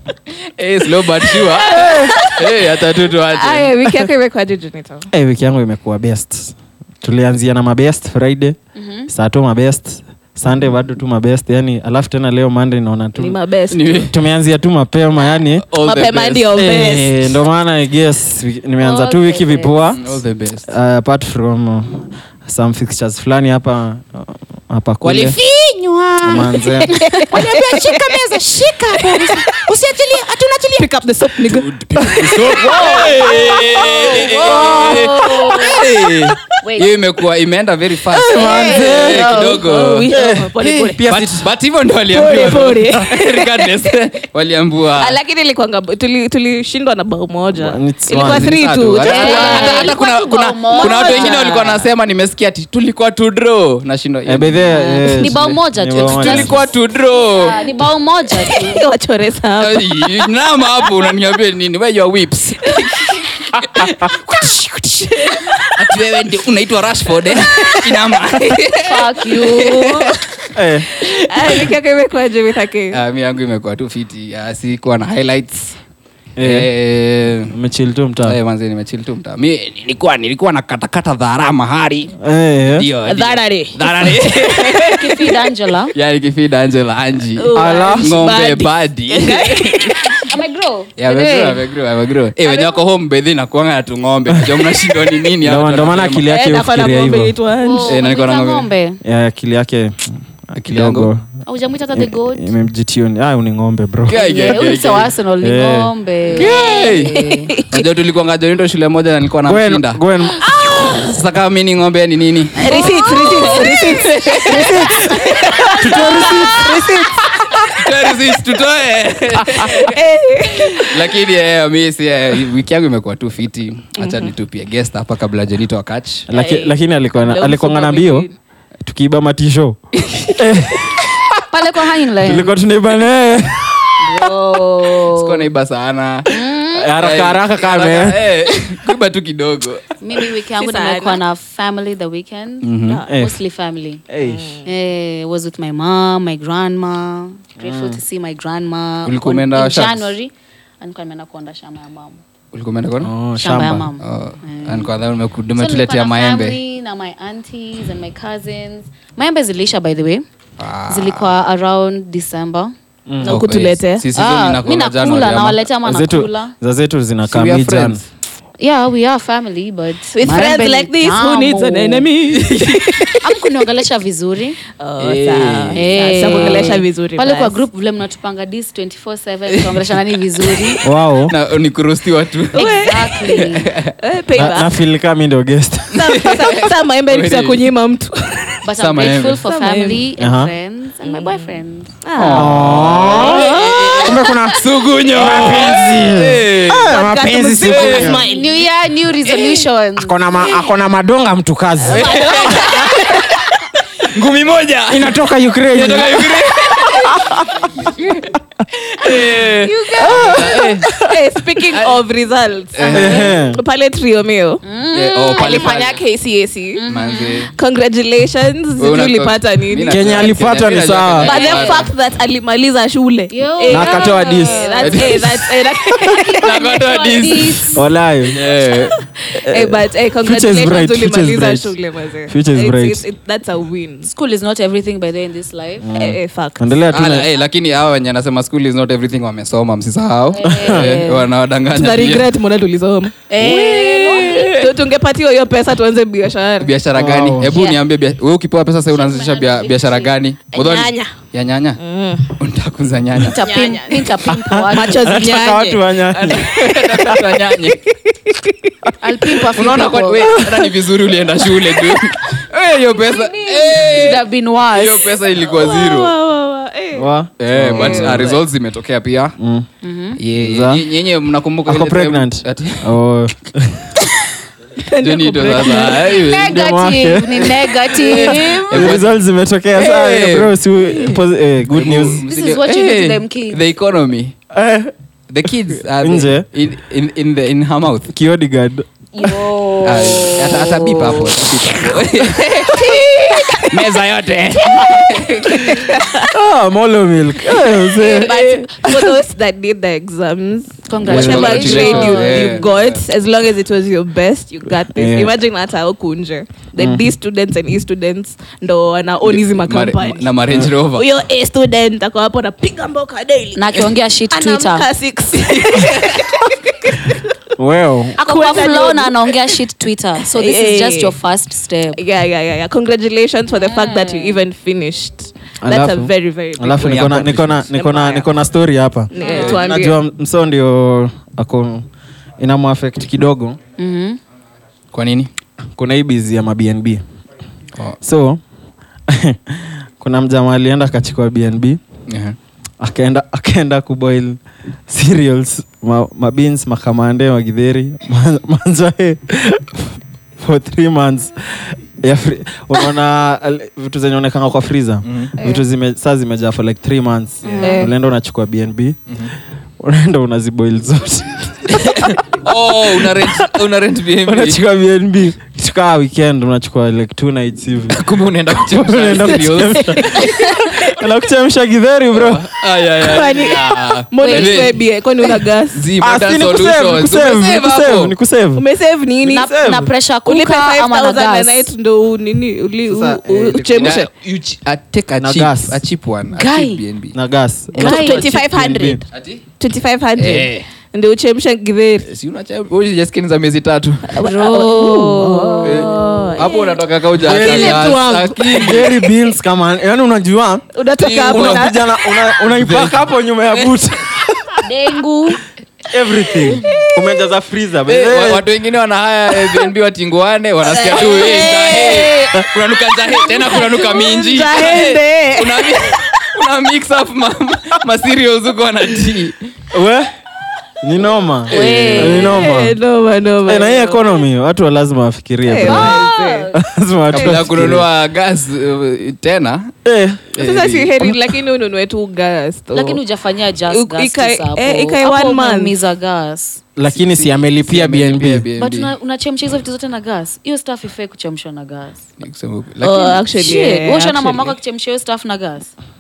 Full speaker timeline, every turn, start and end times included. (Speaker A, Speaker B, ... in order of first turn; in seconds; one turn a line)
Speaker A: 0.6-3.7
Speaker B: 1.4-2.5
Speaker C: 1.7-2.2
Speaker B: 3.3-5.1
Speaker C: 5.1-8.6
Speaker D: 8.8-9.1
Speaker C: 9.1-13.4
Speaker B: 13.2-14.0
Speaker A: 13.7-14.2
Speaker C: 13.9-15.7
Speaker A: 15.7-16.6
Speaker B: 15.8-17.4
Speaker C: 16.5-20.0
Speaker D: 18.8-20.0
Speaker A: 20.0-20.7
Speaker C: 20.7-25.4
Speaker A: 25.0-30.9
Speaker C: 26.2-27.6
Speaker B: 26.4-28.3
Speaker D: 27.0-27.3
Speaker B: 28.9-35.7
Speaker A: 31.4-40.1
Speaker C: 32.0-32.9
Speaker D: 32.6-33.5
Speaker D: 34.2-35.8
Speaker C: 34.4-35.1
Speaker D: 36.6-36.9
Speaker B: 38.1-41.0
Speaker C: 38.1-41.5
Speaker A: 40.6-45.2
Speaker B: 42.1-43.9
Speaker B: 45.0-50.0
Speaker C: 47.5-48.5
Speaker A: 48.2-54.7
Speaker D: 49.0-51.5
Speaker B: 50.7-51.9
Speaker C: 54.3-56.6
Speaker B: 54.7-55.3
Speaker D: 55.1-56.7
Speaker A: 55.9-57.6
Speaker D: 57.3-58.9
Speaker B: 58.5-60.1
Speaker A: 59.6-70.1
Speaker C: 63.8-64.1
Speaker B: 65.1-65.7
Speaker B: 67.5-67.8
Speaker D: 68.8-70.2
Speaker C: 70.5-70.9
Speaker A: 71.0-71.7
Speaker B: 71.0-73.0
Speaker A: 72.9-75.8
Speaker C: 76.4-76.7
Speaker A: 76.4-77.5
Speaker C: 77.5-78.4
Speaker A: 78.2-82.1
Speaker C: 82.2-82.9
Speaker A: 82.7-85.0
Speaker B: 83.0-85.4
Speaker D: 84.9-85.9
Speaker A: 86.0-90.0
Speaker B: 87.4-90.2
Speaker C: 87.5-88.2
Speaker D: 90.1-91.6
Speaker A: 91.0-96.3
Speaker D: 92.4-92.8
Speaker C: 95.4-97.3
Speaker B: 96.3-98.0
Speaker D: 97.6-99.0
Speaker A: 97.8-98.7
Speaker C: 99.0-101.2
Speaker A: 100.6-101.1
Speaker D: 101.5-102.5
Speaker C: 101.9-104.2
Speaker A: 104.1-105.1
Speaker D: 104.1-107.5
Speaker C: 105.4-105.9
Speaker A: 106.3-110.0
Speaker B: 106.4-107.8
Speaker C: 109.5-110.6
Speaker A: 110.7-114.8
Speaker B: 112.6-117.8
Speaker D: 112.6-113.7
Speaker D: 114.5-114.8
Speaker C: 114.5-117.2
Speaker A: 117.5-120.0
Speaker B: 119.4-121.0
Speaker A: 120.8-126.3
Speaker B: 124.0-124.3
Speaker C: 126.3-128.3
Speaker B: 126.3-128.3
Speaker C: 128.8-129.8
Speaker C: 130.4-131.1
Speaker D: 131.5-132.5
Speaker C: 132.2-134.1
Speaker D: 134.0-135.5
Speaker A: 135.1-136.3
Speaker D: 136.3-136.9
Speaker C: 136.7-138.2
Speaker A: 137.0-139.8
Speaker D: 140.0-144.0
Speaker B: 140.6-141.2
Speaker A: 142.6-143.0
Speaker C: 143.1-143.4
Speaker C: 144.1-144.5
Speaker B: 144.3-144.7
Speaker D: 144.6-152.2
Speaker C: 147.6-148.0
Speaker A: 149.1-150.2
Speaker A: 152.5-153.1
Speaker C: 153.0-153.9
Speaker D: 153.4-154.9
Speaker A: 153.7-156.6
Speaker D: 155.6-160.2
Speaker A: 160.6-161.3
Speaker D: 160.9-162.7
Speaker C: 163.1-163.5
Speaker B: 163.2-164.0
Speaker A: 163.3-165.7
Speaker D: 164.2-166.5
Speaker C: 165.8-168.0
Speaker A: 167.3-168.1
Speaker D: 168.6-172.1
Speaker B: 170.1-173.3
Speaker A: 172.4-172.9
Speaker D: 173.2-174.6
Speaker B: 174.8-177.6
Speaker A: 175.0-176.7
Speaker D: 175.7-180.8
Speaker C: 180.8-181.3
Speaker A: 181.3-182.7
Speaker B: 182.5-184.7
Speaker D: 182.5-183.7
Speaker A: 183.6-183.9
Speaker C: 184.3-186.1
Speaker A: 185.9-187.7
Speaker B: 185.9-190.0
Speaker D: 188.6-192.0
Speaker A: 188.8-189.4
Speaker C: 190.2-190.5
Speaker B: 191.0-191.5
Speaker B: 192.0-194.2
Speaker A: 192.2-197.0
Speaker C: 192.3-198.2
Speaker B: 196.8-198.7
Speaker A: 197.6-198.1
Speaker D: 198.1-200.7
Speaker A: 199.3-199.6
Speaker C: 200.0-202.3
Speaker B: 201.8-203.4
Speaker A: 201.9-203.4
Speaker A: 204.0-205.2
Speaker C: 204.9-207.5
Speaker A: 205.7-207.2
Speaker A: 207.9-210.9
Speaker D: 209.5-210.5
Speaker C: 210.0-211.1
Speaker B: 211.0-214.6
Speaker A: 211.7-212.0
Speaker A: 212.7-213.3
Speaker C: 212.9-213.6
Speaker D: 214.6-215.8
Speaker A: 214.9-216.1
Speaker B: 215.3-216.8
Speaker D: 216.7-217.5
Speaker A: 216.9-217.5
Speaker B: 217.5-220.1
Speaker A: 218.8-221.9
Speaker C: 219.9-221.3
Speaker D: 221.2-221.9
Speaker B: 221.3-227.3
Speaker D: 223.3-225.2
Speaker C: 223.7-224.6
Speaker A: 224.8-225.6
Speaker A: 226.3-227.7
Speaker D: 226.5-227.9
Speaker C: 227.7-228.4
Speaker A: 228.3-229.0
Speaker B: 228.6-234.1
Speaker C: 229.4-231.8
Speaker C: 232.3-233.0
Speaker D: 234.1-235.9
Speaker C: 235.8-237.3
Speaker B: 236.0-236.8
Speaker A: 236.9-242.3
Speaker D: 240.3-241.0
Speaker C: 240.4-240.8
Speaker B: 240.7-246.7
Speaker D: 243.3-244.5
Speaker A: 243.4-244.7
Speaker A: 246.6-251.8
Speaker C: 246.9-247.6
Speaker D: 247.5-247.8
Speaker D: 248.9-250.1
Speaker B: 250.5-251.1
Speaker B: 251.8-252.3
Speaker A: 252.4-253.4
Speaker D: 253.2-255.2
Speaker B: 253.4-257.2
Speaker C: 254.3-257.0
Speaker A: 256.3-257.9
Speaker B: 258.3-258.6
Speaker D: 259.0-260.3
Speaker A: 259.6-266.1
Speaker C: 260.2-260.7
Speaker D: 263.3-265.1
Speaker B: 265.4-267.1
Speaker C: 266.9-268.3
Speaker A: 267.4-269.4
Speaker B: 267.7-268.4
Speaker C: 269.4-269.7
Speaker D: 269.8-270.2
Speaker A: 270.2-272.9
Speaker C: 270.4-270.8
Speaker C: 271.7-274.0
Speaker B: 274.8-276.2
Speaker A: 275.0-276.6
Speaker D: 276.2-278.9
Speaker C: 276.3-282.2
Speaker B: 278.0-278.3
Speaker A: 278.2-279.1
Speaker A: 279.8-280.5
Speaker A: 281.7-284.3
Speaker D: 282.2-283.6
Speaker C: 284.5-284.9
Speaker A: 285.3-288.1
Speaker C: 286.0-286.4
Speaker C: 288.1-289.4
Speaker D: 289.1-291.2
Speaker A: 289.8-295.9
Speaker B: 292.6-293.8
Speaker B: 295.4-296.3
Speaker C: 296.3-299.2
Speaker B: 297.9-310.3
Speaker A: 298.1-298.6
Speaker D: 300.9-302.7
Speaker A: 301.1-303.0
Speaker C: 301.1-301.8
Speaker C: 304.9-305.4
Speaker C: 306.8-307.1
Speaker A: 309.2-311.1
Speaker B: 310.9-317.2
Speaker D: 313.6-314.9
Speaker A: 315.4-316.3
Speaker C: 317.6-318.1
Speaker B: 318.2-319.4
Speaker D: 318.2-322.0
Speaker B: 320.3-321.2
Speaker B: 322.0-328.3
Speaker D: 323.6-324.4
Speaker C: 325.6-331.9
Speaker A: 326.8-327.7
Speaker B: 329.1-330.0
Speaker A: 329.2-329.6
Speaker C: 332.4-333.6
Speaker D: 333.8-334.2
Speaker A: 334.9-335.3
Speaker C: 335.8-337.0
Speaker C: 338.0-338.4
Speaker C: 339.1-341.8
Speaker A: 342.1-342.4
Speaker C: 342.8-359.0
Speaker A: 355.1-355.3
Speaker D: 357.4-357.9
Speaker B: 357.6-357.9
Speaker C: 359.8-362.1
Speaker A: 361.7-364.6
Speaker C: 363.0-363.5
Speaker C: 364.2-368.0
Speaker A: 367.9-370.9
Speaker C: 368.7-372.5
Speaker B: 370.0-370.7
Speaker A: 372.1-378.1
Speaker B: 373.0-375.8
Speaker D: 374.2-374.8
Speaker C: 376.0-378.7
Speaker B: 378.6-379.5
Speaker C: 379.2-379.9
Speaker D: 379.3-381.7
Speaker B: 380.2-384.1
Speaker C: 382.9-383.9
Speaker A: 383.7-387.1
Speaker C: 385.2-385.8
Speaker D: 386.3-386.8
Speaker C: 387.1-389.0
Speaker D: 387.8-388.3
Speaker B: 387.8-389.1
Speaker A: 389.1-389.4
Speaker B: 389.6-392.1
Speaker A: 390.2-390.7
Speaker A: 392.1-394.1
Speaker B: 394.1-396.7
Speaker D: 394.2-396.6
Speaker A: 395.6-398.9
Speaker C: 397.2-400.7
Speaker B: 397.4-398.6
Speaker B: 400.8-401.8
Speaker A: 401.0-401.7
Speaker C: 401.3-404.6
Speaker A: 402.4-403.0
Speaker A: 403.5-403.8
Speaker D: 404.6-405.4
Speaker C: 405.9-408.4
Speaker A: 407.9-419.5
Speaker B: 410.7-412.4
Speaker B: 413.4-415.9
Speaker D: 413.7-414.1
Speaker C: 419.7-420.1
Speaker C: 420.8-422.8
Speaker D: 421.5-422.3
Speaker A: 421.5-422.5
Speaker B: 422.1-424.2
Speaker C: 423.4-426.0
Speaker B: 425.5-426.5
Speaker D: 425.6-426.6
Speaker C: 426.5-427.9
Speaker A: 427.1-429.7
Speaker C: 429.9-430.3
Speaker A: 430.4-431.2
Speaker B: 430.4-433.0
Speaker D: 432.7-436.6
Speaker B: 433.7-435.8
Speaker C: 436.8-438.5
Speaker A: 436.9-438.9
Speaker D: 438.6-442.0
Speaker A: 442.2-443.2
Speaker B: 442.8-444.5
Speaker D: 443.3-445.7